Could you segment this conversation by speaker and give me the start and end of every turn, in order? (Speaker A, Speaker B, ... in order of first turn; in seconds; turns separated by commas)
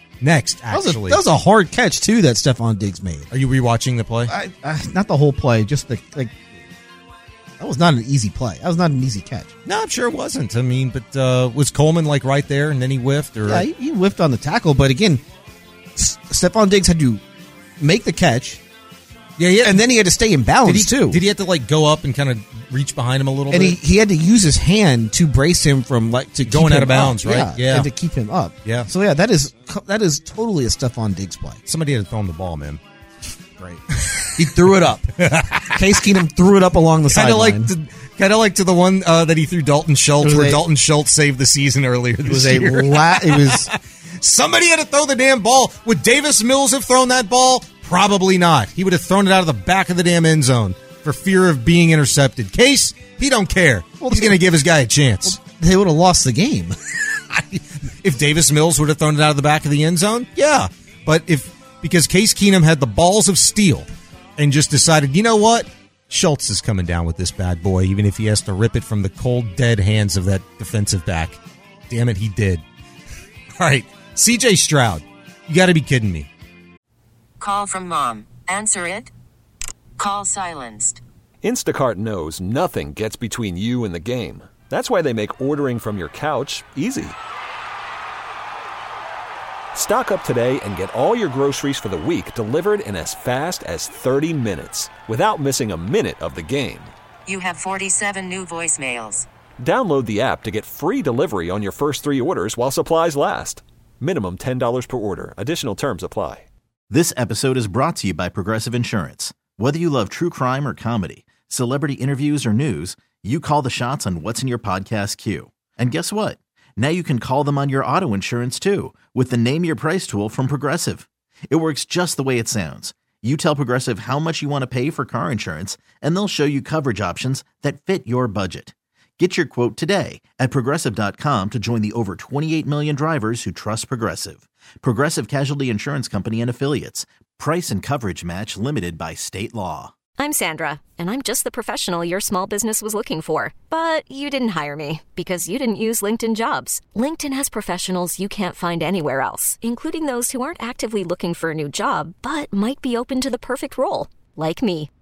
Speaker A: 0.2-1.2, Speaker B: 0.7-3.3, Speaker A: 3.3-4.3, Speaker B: 4.3-6.5, Speaker B: 7.6-9.5, Speaker A: 9.7-13.7, Speaker B: 13.5-15.2, Speaker B: 16.0-17.2, Speaker B: 17.8-18.6, Speaker A: 19.4-19.8, Speaker B: 19.6-21.2, Speaker A: 20.6-23.8, Speaker B: 23.5-31.6, Speaker A: 26.5-27.9, Speaker A: 31.7-32.8, Speaker B: 33.6-33.8, Speaker B: 34.4-35.2, Speaker A: 35.1-35.8, Speaker B: 35.7-37.7, Speaker A: 37.1-55.4, Speaker B: 40.2-40.6, Speaker B: 42.2-43.7, Speaker B: 54.0-54.4, Speaker B: 55.2-56.8, Speaker A: 57.3-72.6, Speaker A: 73.6-76.3, Speaker C: 77.4-79.1, Speaker C: 80.0-81.0, Speaker D: 81.4-87.2, Speaker D: 89.8-96.9, Speaker C: 97.3-99.3, Speaker D: 99.6-106.5, Speaker E: 106.9-139.9, Speaker F: 140.2-154.9